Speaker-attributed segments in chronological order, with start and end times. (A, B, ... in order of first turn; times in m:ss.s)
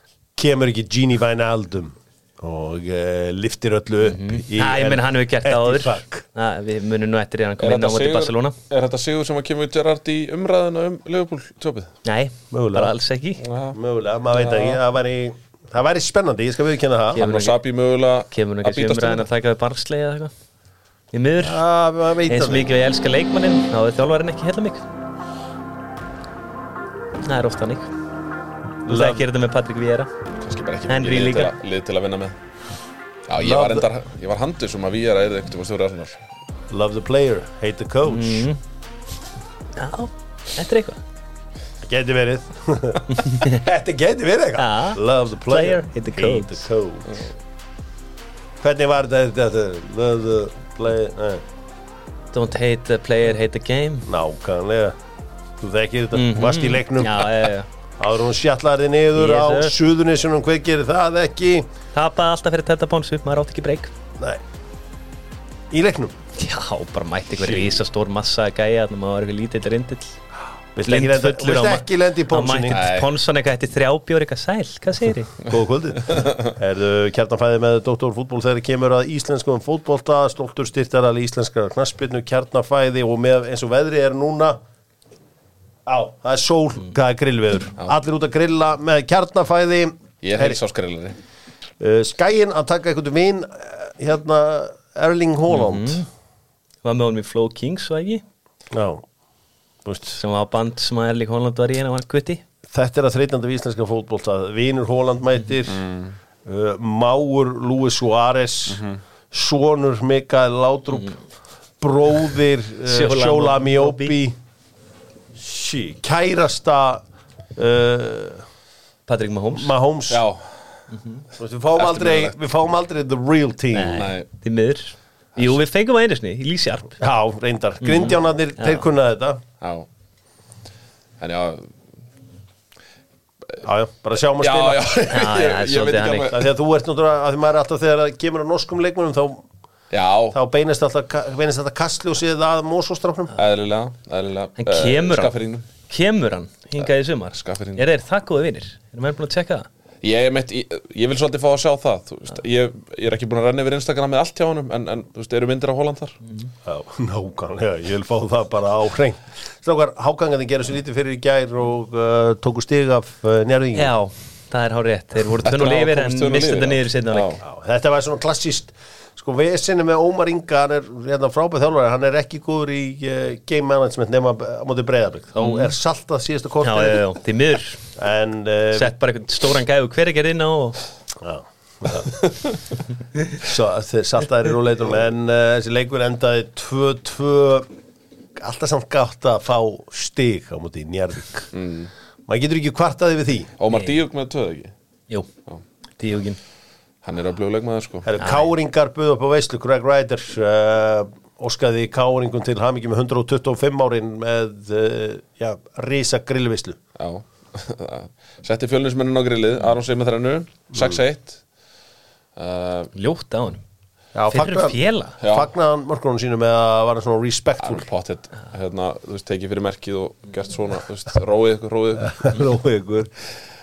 0:00.4-0:06.3 A
0:04.0-0:08.6 B
0:07.6-0:11.9 C
0:12.0-0:13.4 B
0:12.5-0:12.9 A
0:13.4-0:13.8 C
0:13.7-0:17.2 A
0:14.4-0:14.8 B
0:17.1-0:17.6 B
0:17.2-0:19.2 C
0:18.3-0:20.3 B
0:21.1-0:21.6 B
0:21.4-0:22.7 A
0:22.3-0:24.8 B
0:27.2-0:27.9 B
0:28.8-0:29.2 A
0:28.9-0:30.1 B
0:30.4-0:32.4 C
0:30.9-0:31.5 B
0:33.3-0:36.2 C
0:33.4-0:33.9 A
0:36.7-0:38.5 A
0:38.1-0:38.6 B
0:39.8-0:41.0 B
0:41.8-0:47.2 A
0:43.2-0:43.6 B
0:44.6-0:46.6 B
0:48.6-0:51.4 A
0:52.3-0:54.1 B
0:54.1-0:55.0 A
0:55.6-0:57.3 A
0:56.1-0:57.7 B
0:58.0-1:01.7 A
0:59.2-0:59.7 B
1:01.9-1:03.9 B
1:05.7-1:06.2 A
1:06.4-1:10.2 B
1:07.4-1:07.8 A
1:10.8-1:12.8 A
1:10.8-1:15.3 B
1:12.7-1:13.1 C
1:15.4-1:24.6 A
1:16.1-1:16.5 C
1:25.9-1:30.6 A
1:30.2-1:31.2 C
1:31.8-1:36.0 A
1:35.5-1:36.1 B
1:36.8-1:38.2 B
1:38.7-1:39.0 A
1:39.8-1:40.2 A
1:40.2-1:42.4 B
1:42.7-1:45.8 A
1:45.7-1:46.2 C
1:46.4-1:51.2 A
1:48.7-1:49.0 C
1:51.8-1:54.4 A
1:52.8-1:54.2 B
1:55.4-1:57.0 A
1:57.6-1:58.4 A
1:59.1-1:59.7 B
1:59.5-2:00.2 A
2:00.1-2:00.9 C
2:01.4-2:04.0 A
2:01.8-2:02.4 C
2:03.7-2:07.0 B
2:03.9-2:04.3 C
2:07.0-2:09.4 A
2:07.8-2:08.8 B
2:09.6-2:09.9 C
2:11.2-2:11.7 C
2:13.6-2:14.9 A
2:14.4-2:16.5 C
2:15.1-2:16.3 B
2:16.3-2:19.4 A
2:19.9-2:20.4 C
2:20.3-2:23.3 A
2:23.4-2:25.7 C
2:24.6-2:29.7 B
2:26.8-2:27.8 C
2:30.0-2:36.2 C
2:36.6-2:43.9 A
2:43.8-2:47.4 B
2:45.4-2:47.4 C
2:47.4-2:57.0 A
2:55.4-2:55.7 B
2:56.6-2:57.8 B
2:58.0-2:59.0 A
2:58.7-3:00.8 B
3:01.2-3:02.2 A
3:03.4-3:07.7 A
3:08.4-3:11.5 A
3:11.5-3:11.9 C
3:12.3-3:13.5 A
3:13.6-3:14.7 C
3:13.7-3:14.0 B
3:16.0-3:16.4 B
3:17.0-3:18.1 C
3:18.1-3:26.8 A
3:18.2-3:18.5 B
3:27.0-3:31.4 C
3:30.8-3:31.0 A
3:32.4-3:32.9 C
3:33.0-3:33.6 B
3:34.1-3:37.9 A
3:34.3-3:35.2 B
3:35.2-3:35.5 C
3:37.6-3:42.5 C
3:42.0-3:43.1 A